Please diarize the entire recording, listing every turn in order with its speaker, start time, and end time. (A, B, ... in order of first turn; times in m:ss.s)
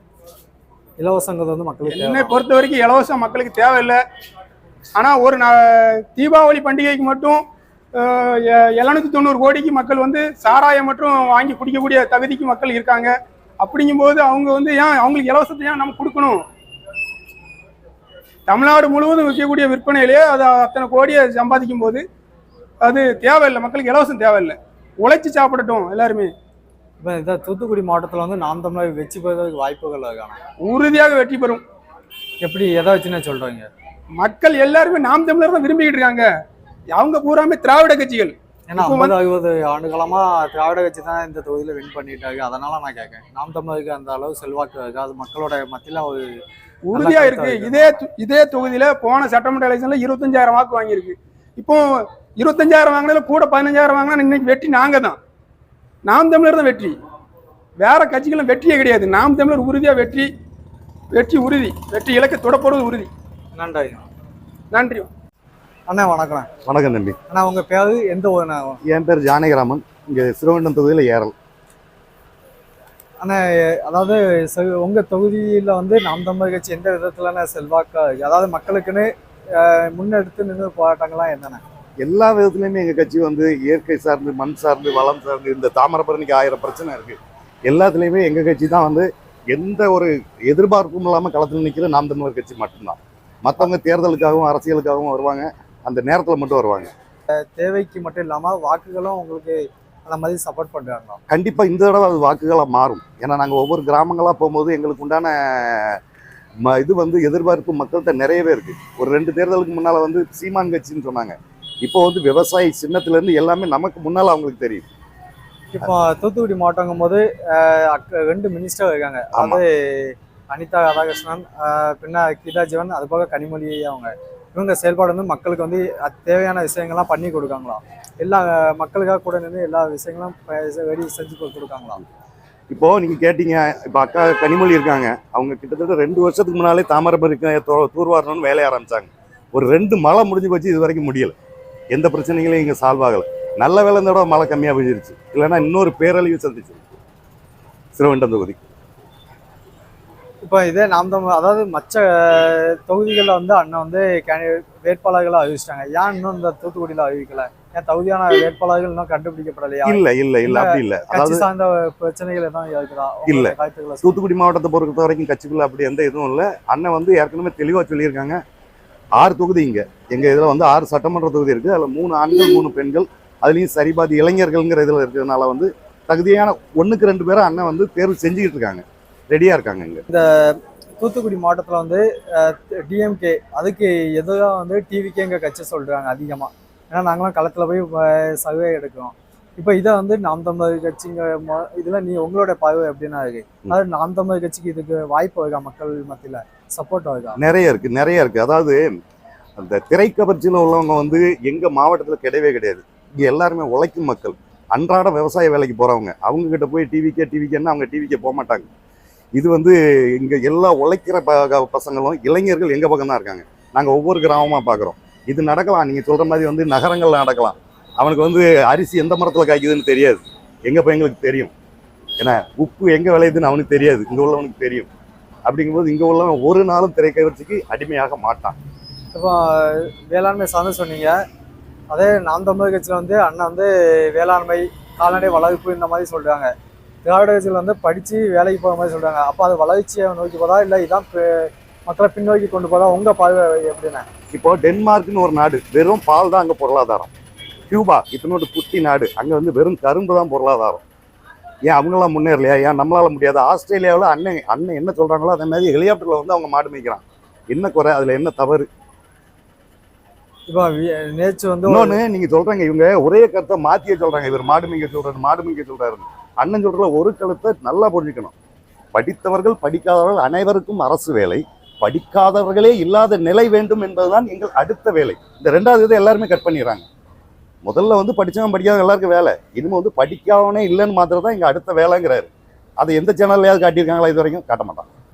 0:01.0-0:02.4 A
0:01.8-0:04.0 B
0:05.0-0:16.4 B
0:18.5-0:22.0 B
0:22.8-0:26.3 B
0:27.0-0:30.4 A
0:30.6-0:31.6 B
0:32.4-0:33.7 A
0:34.2-0:36.3 B
0:36.9-0:39.2 B
0:38.7-0:46.4 A
0:46.9-0:55.2 B
0:46.9-0:48.0 A
0:56.0-0:57.0 B
0:57.8-1:00.3 B
1:01.1-1:03.1 B
1:03.5-1:04.1 A
1:04.7-1:05.1 B
1:05.9-1:06.5 A
1:06.6-1:07.2 C
1:07.3-1:08.8 A
1:08.8-1:11.3 C
1:13.2-1:21.6 A
1:22.0-1:36.9 C
1:37.4-1:41.2 A
1:41.3-1:46.0 C
1:46.6-1:54.8 C
1:55.7-2:12.0 A
1:59.3-1:59.6 C
2:12.7-2:21.3 C
2:21.9-2:26.8 C
2:28.0-2:28.6 C
2:30.4-2:44.2 A
2:39.8-2:41.5 C
2:43.3-2:48.4 C
2:49.2-3:00.0 C
3:00.1-3:17.4 A
3:17.4-3:18.9 C
3:19.6-3:28.7 C
3:29.4-3:41.5 C
3:42.2-3:44.9 C
3:45.5-3:48.6 C
3:49.1-3:51.2 A
3:51.9-3:56.5 A
3:57.0-4:04.0 A
4:04.3-4:07.1 C
4:07.7-4:10.8 C
4:11.7-4:18.7 C
4:20.5-4:22.0 A
4:21.6-4:28.4 C
4:29.0-4:36.9 C
4:37.6-4:44.9 C